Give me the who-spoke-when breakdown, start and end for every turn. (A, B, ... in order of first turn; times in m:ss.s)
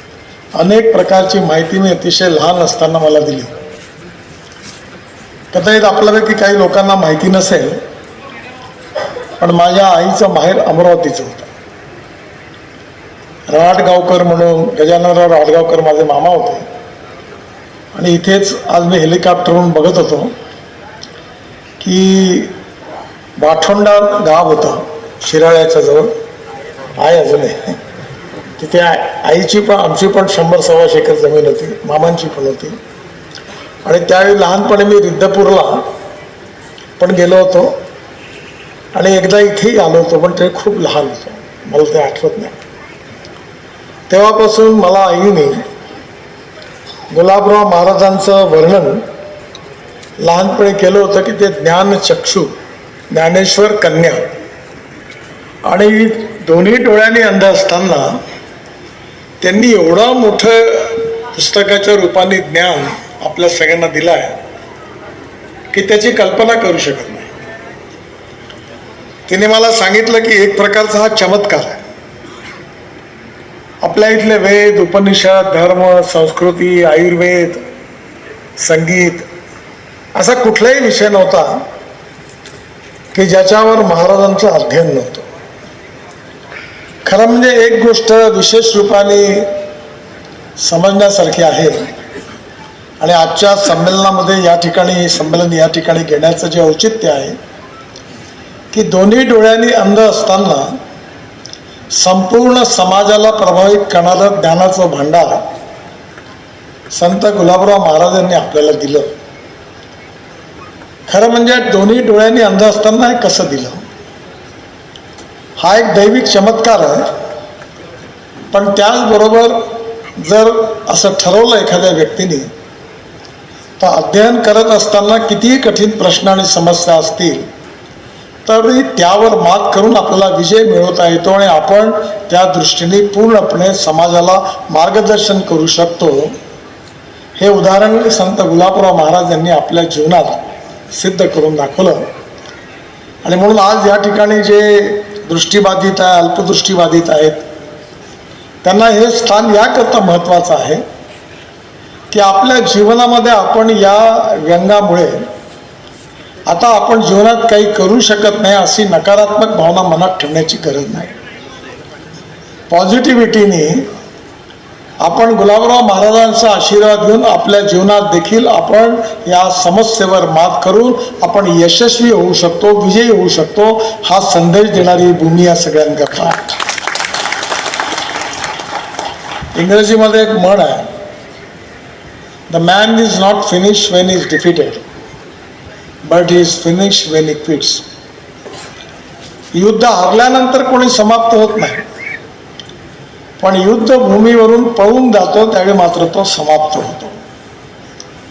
0:00.6-0:03.5 A
0:05.5-0:07.8 A
0:09.4-0:11.5 A
0:13.5-0:16.6 A
0:17.9-0:20.3 A
0:21.8-0:22.5 A
0:23.4-0:26.1 A
0:27.0-0:27.8 A
0:28.6-0:32.8 A
0:33.8-0:35.9 A
0:37.0-0:37.8 A
0:38.9-0:42.5 A
0:44.1-0:45.6 A
0:47.1-0:49.0 A
0:50.2-0:52.5 A
0:53.1-0:54.2 A
0:55.6-0:58.2 A
0:59.4-1:04.4 A
1:05.7-1:07.3 A
1:09.3-1:11.8 A
1:13.8-1:17.6 A
1:18.6-1:19.2 A
1:20.1-1:21.6 A
1:23.1-1:25.3 A
1:27.0-1:29.5 A
1:30.6-1:31.8 A
1:33.0-1:37.4 A
1:38.7-1:40.7 A
1:41.9-1:45.4 A
1:46.9-1:49.1 A
1:51.1-1:53.8 A
1:55.6-1:57.0 A
1:58.5-2:02.5 A
2:03.8-2:07.5 A
2:08.4-2:16.3 A
2:17.4-2:22.1 A
2:23.2-2:27.4 A
2:28.6-2:30.8 A
2:32.1-2:35.2 A
2:36.5-2:41.1 A
2:42.7-2:43.8 A
2:45.0-2:56.5 A
2:59.5-3:00.8 A
3:02.5-3:04.8 A
3:06.0-3:07.8 A
3:09.5-3:11.8 A
3:13.4-3:17.2 A